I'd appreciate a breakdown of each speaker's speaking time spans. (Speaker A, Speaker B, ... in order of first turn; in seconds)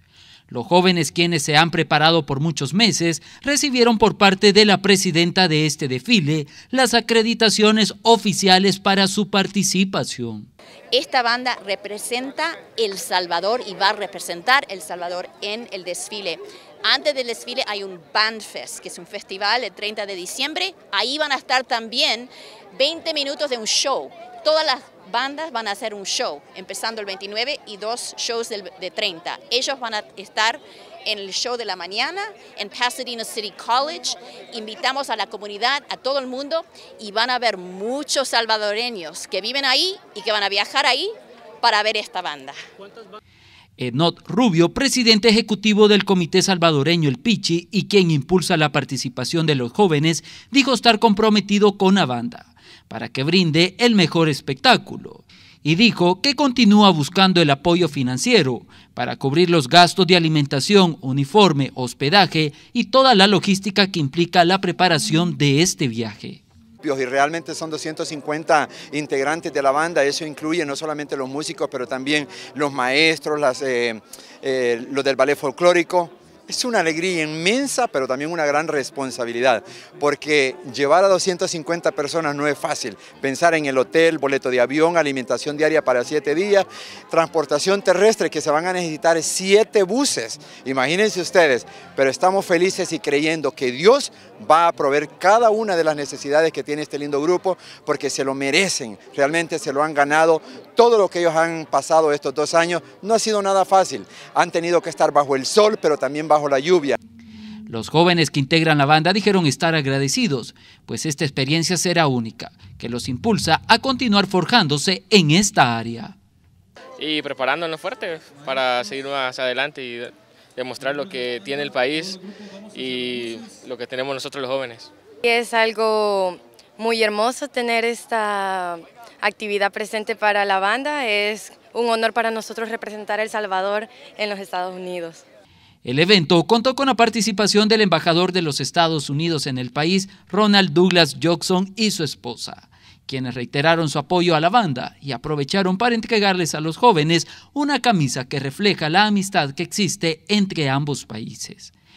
Speaker A: 0.5-10.5, 43.8-66.4, 107.7-116.1, 135.8-151.7
Speaker B: 10.9-42.5
Speaker C: 66.8-107.0
Speaker D: 117.0-122.2, 122.7-124.9
Speaker E: 125.2-135.2